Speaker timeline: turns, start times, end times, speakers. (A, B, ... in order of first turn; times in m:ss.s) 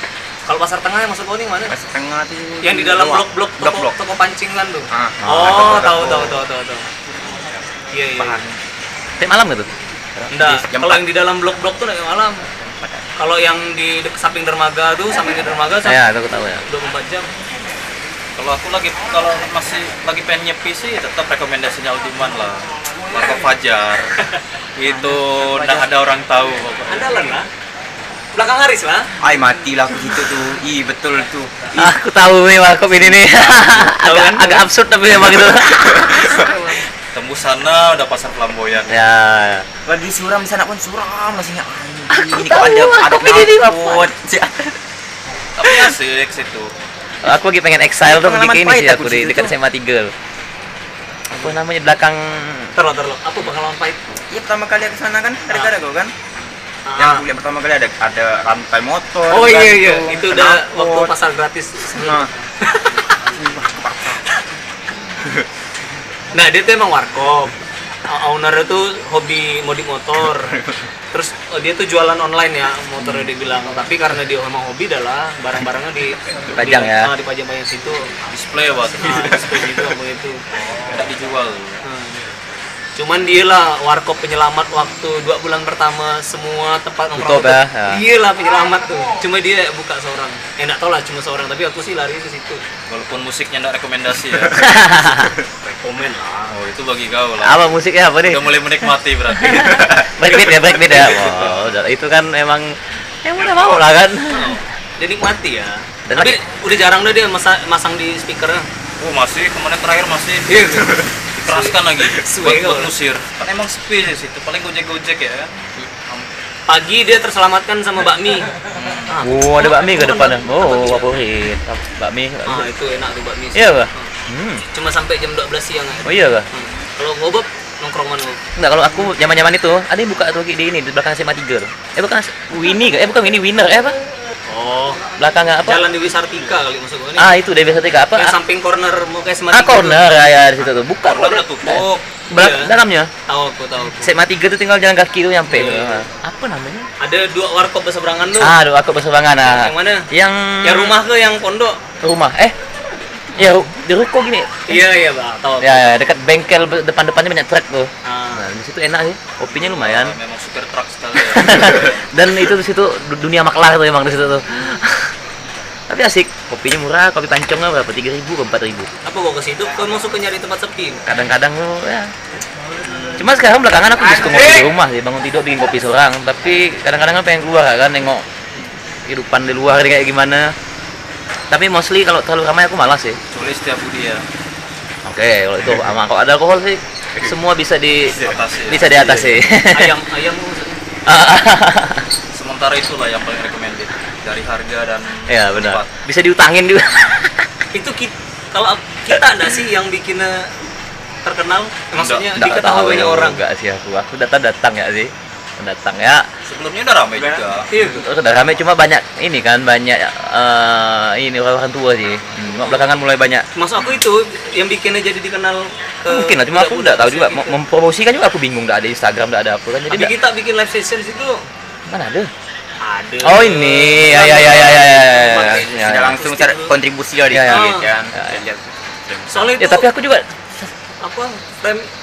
0:00.5-0:01.8 A
0:01.7-0:04.0 B
0:02.6-0:06.8 A
0:04.9-0:06.4 B
0:05.3-0:05.6 C
0:07.9-0:08.4 A
0:08.2-0:08.6 B
0:09.2-0:10.3 C
0:10.3-0:11.1 B
0:10.3-0:12.4 A
0:12.6-0:13.1 B
0:13.2-0:16.0 A
0:15.8-0:16.6 C
0:16.6-0:17.3 A
0:18.4-0:24.2 D
0:24.8-0:27.2 D
0:24.9-0:25.9 B
0:26.9-0:27.5 A
0:28.4-0:29.1 A
0:29.2-0:31.6 B
0:31.8-0:36.5 C
0:34.0-0:34.6 A
0:35.3-0:36.6 B
0:36.3-0:36.8 A
0:37.2-0:39.0 D
0:38.9-0:39.7 C
0:39.9-0:44.8 B
0:42.1-0:44.1 C
0:45.6-0:46.7 D
0:45.6-0:45.9 B
0:47.2-0:50.1 C
0:48.0-0:49.5 B
0:51.3-0:52.7 C
0:52.8-0:54.0 A
0:54.3-0:56.1 B
0:56.9-0:57.2 A
0:57.0-1:01.1 B
0:59.3-1:03.0 A
1:01.9-1:02.3 B
1:03.3-1:04.2 B
1:06.3-1:07.6 A
1:08.1-1:10.6 A
1:11.1-1:18.1 A
1:13.0-1:13.3 C
1:16.5-1:17.1 C
1:18.3-1:19.6 D
1:19.0-1:20.9 A
1:20.9-1:21.8 D
1:21.8-1:22.2 A
1:23.0-1:32.6 A
1:27.2-1:28.0 C
1:32.9-1:34.8 D
1:34.5-1:35.4 C
1:35.8-1:36.6 A
1:36.5-1:37.7 D
1:37.4-1:44.6 C
1:38.2-1:40.1 D
1:43.4-1:43.8 D
1:44.3-1:48.7 A
1:46.1-1:46.4 C
1:49.0-1:50.6 D
1:50.5-1:52.9 A
1:51.4-1:56.3 D
1:56.7-1:58.5 A
1:58.7-1:59.2 D
1:59.1-2:01.1 A
1:59.2-2:02.7 C
2:02.5-2:04.1 A
2:03.6-2:04.6 C
2:04.7-2:08.4 A
2:06.0-2:06.5 C
2:08.6-2:14.0 C
2:14.5-2:15.1 A
2:15.2-2:15.8 C
2:15.6-2:17.3 A
2:17.2-2:18.4 C
2:18.1-2:20.2 A
2:19.5-2:23.1 C
2:21.0-2:22.0 D
2:22.3-2:22.8 A
2:23.3-2:24.1 A
2:24.0-2:26.9 C
2:25.5-2:26.1 A
2:27.0-2:28.5 A
2:28.4-2:31.0 C
2:29.4-2:30.1 A
2:30.6-2:31.8 A
2:32.0-2:32.6 C
2:33.3-2:34.8 C
2:34.7-2:35.9 A
2:35.6-2:40.2 C
2:38.0-2:38.5 A
2:39.5-2:42.1 D
2:41.2-2:45.1 C
2:45.9-2:48.9 C
2:49.0-2:51.0 A
2:51.1-2:52.1 C
2:52.8-2:53.3 A
2:53.2-2:58.3 C
2:59.1-3:00.5 C
3:01.5-3:03.2 C
3:03.3-3:04.2 D
3:05.1-3:08.2 C
3:08.2-3:09.3 D
3:08.7-3:10.0 C
3:09.7-3:10.8 A
3:11.1-3:12.1 C
3:12.3-3:15.9 D
3:15.3-3:17.5 C
3:17.7-3:20.5 A
3:21.2-3:23.4 A
3:22.0-3:22.3 D
3:22.3-3:26.2 C
3:26.4-3:27.7 D
3:27.2-3:27.6 B
3:27.7-3:28.1 A
3:27.9-3:33.5 C
3:33.6-3:37.6 A
3:36.1-3:40.1 C
3:39.9-3:41.4 A
3:41.9-3:42.3 C
3:42.8-3:46.8 A
3:43.2-3:46.2 C
3:44.3-3:44.8 B
3:45.4-3:49.6 B
3:47.3-3:48.4 C
3:47.5-3:47.9 A
3:49.3-3:49.9 A
3:49.6-3:50.3 C
3:51.0-3:51.9 A